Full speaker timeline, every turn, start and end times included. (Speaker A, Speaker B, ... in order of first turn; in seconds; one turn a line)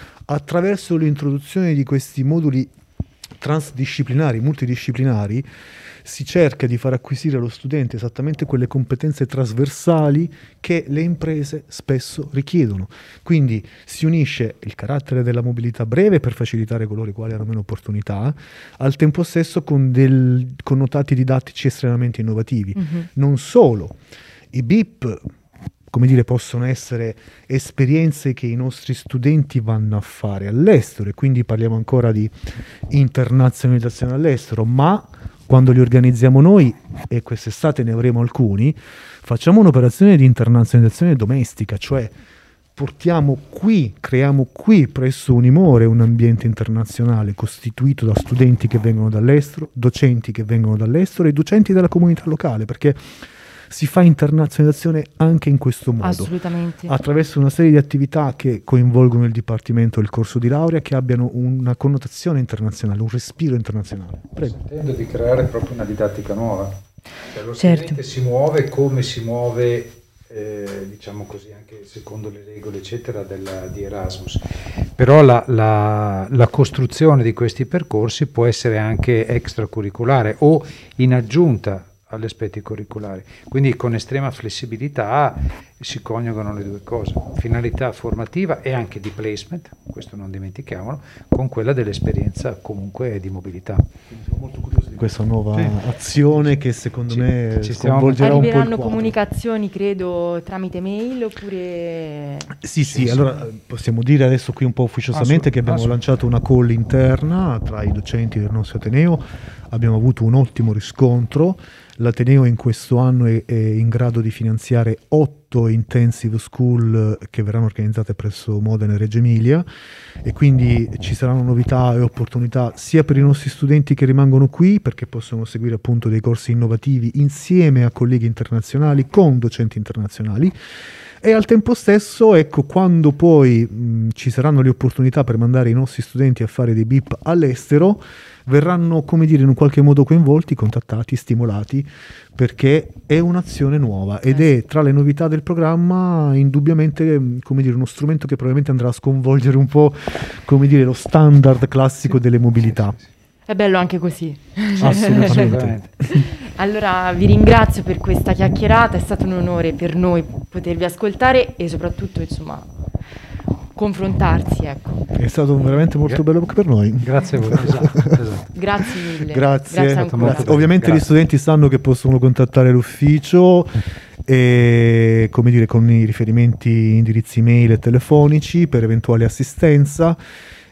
Speaker A: 0.3-2.7
Speaker A: 3.4-5.5
Speaker A: 6.0-24.0
Speaker B: 22.8-23.1
Speaker A: 24.5-25.2
Speaker A: 25.9-32.3
Speaker A: 32.9-42.1
Speaker A: 42.8-53.1
Speaker A: 53.7-56.3
Speaker B: 56.0-57.0
Speaker A: 56.9-64.5
Speaker C: 64.4-66.7
Speaker C: 67.3-74.4
Speaker B: 67.5-68.0
Speaker C: 75.0-93.9
Speaker A: 94.1-99.1
Speaker C: 95.5-95.8
Speaker C: 97.1-98.5
Speaker B: 98.2-102.6
Speaker A: 102.6-119.7
Speaker C: 102.9-103.4
Speaker C: 105.1-106.0
Speaker A: 120.2-130.6
Speaker A: 131.2-153.0
Speaker B: 153.5-155.5
Speaker A: 154.8-156.3
Speaker C: 154.8-155.9
Speaker B: 156.1-162.7
Speaker B: 163.7-165.1
Speaker A: 165.2-168.2
Speaker C: 167.0-168.5
Speaker B: 168.5-170.6
Speaker A: 169.2-180.2
Speaker C: 169.9-171.1